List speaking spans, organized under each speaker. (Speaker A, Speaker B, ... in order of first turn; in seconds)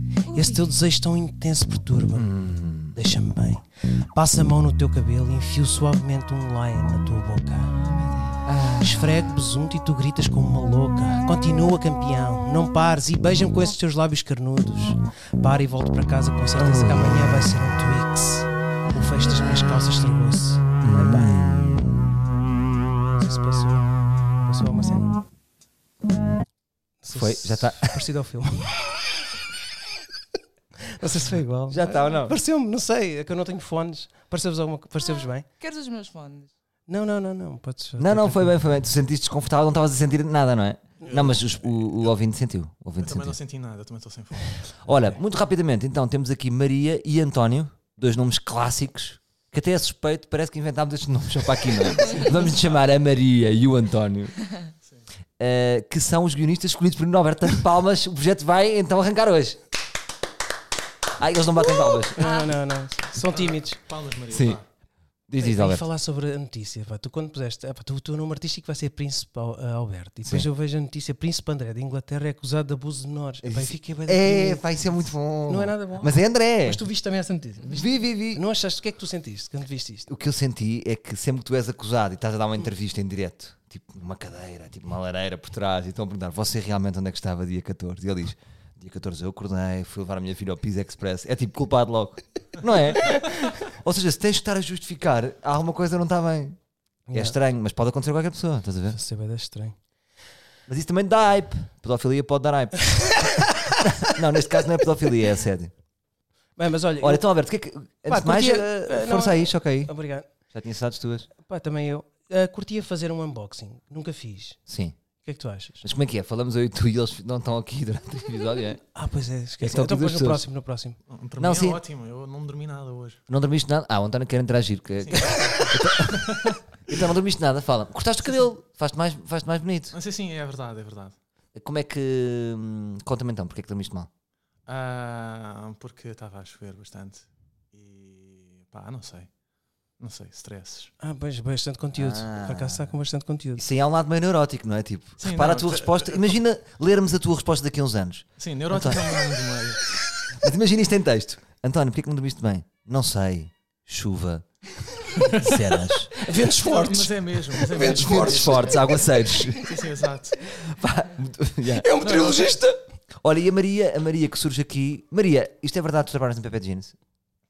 Speaker A: 0.2-0.7, 7.8-8.4, 18.9-19.8, 35.0-36.5, 61.6-62.5
Speaker B: 0.3-2.3, 2.9-7.8, 8.8-21.3, 23.1-23.9, 24.4-25.2, 27.0-28.8, 30.8-35.5, 36.9-38.5, 62.1-63.8, 65.4-80.1, 97.1-97.3, 98.9-99.8, 103.0-104.1, 106.6-107.2, 108.0-110.3, 111.4-114.6, 115.2-115.8, 118.9-121.0, 125.3-125.7, 141.0-143.6, 156.2-159.2, 161.7-162.8
Speaker C: 2.1-3.0, 8.4-9.3, 16.6-17.4, 20.8-22.1, 27.1-28.0, 31.7-32.4, 38.0-43.4, 44.8-54.3, 55.4-59.6, 61.2-62.2, 64.3-64.6, 65.3-65.8, 73.4-76.8, 77.7-78.4, 80.1-96.6, 97.1-99.0, 100.7-105.7, 107.0-109.9, 110.5-111.3, 114.7-115.0, 115.8-118.8, 119.6-120.5, 121.4-121.8, 123.3-129.9, 131.5-134.1, 141.9-142.9, 143.6-149.2, 150.3-154.4, 155.2-156.1, 157.7-159.7, 160.4-161.9, 163.2-166.9
Speaker D: 43.0-44.8, 63.3-64.6, 121.1-123.2, 125.0-126.6, 129.9-131.2, 134.7-139.3, 140.0-140.9, 145.2-146.4, 148.4-150.0, 155.2-155.6, 156.5-158.8, 159.5-160.4, 162.0-162.5